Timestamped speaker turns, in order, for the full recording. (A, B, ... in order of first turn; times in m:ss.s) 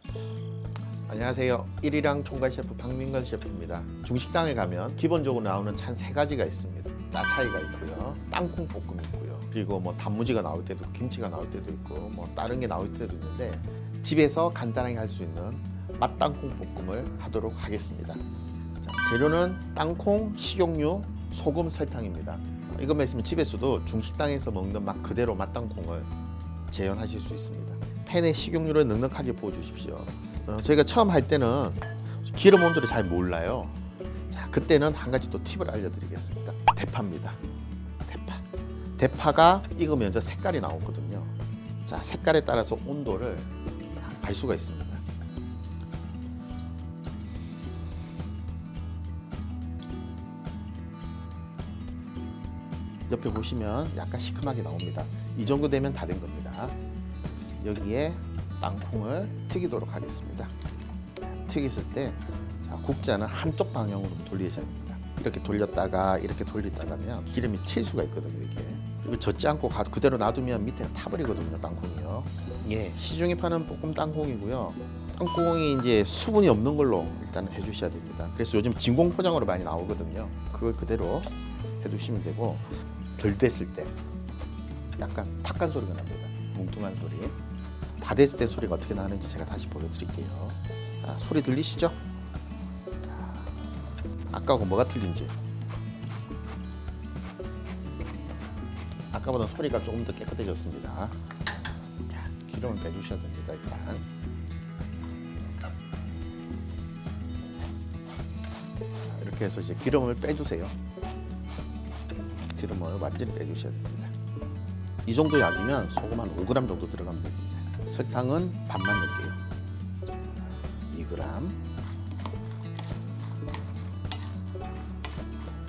0:01.0-0:18.2 A
0:18.8-0:26.1 A
0:26.7-0:37.4 A
0:38.0-0:38.4 A
0:39.0-0:41.3 A
0:41.8-0:45.0 A
0:53.1-0:56.8 A
0:57.6-1:00.5 A
1:01.3-1:23.9 A
1:25.0-1:27.3 A
1:28.0-1:32.0 A
1:33.0-1:33.5 A
1:34.3-1:35.4 A
1:39.1-1:41.2 A
1:42.1-1:44.0 A
1:49.0-1:50.7 A
1:52.5-1:54.1 A
1:55.0-1:59.4 A
2:00.9-2:01.6 A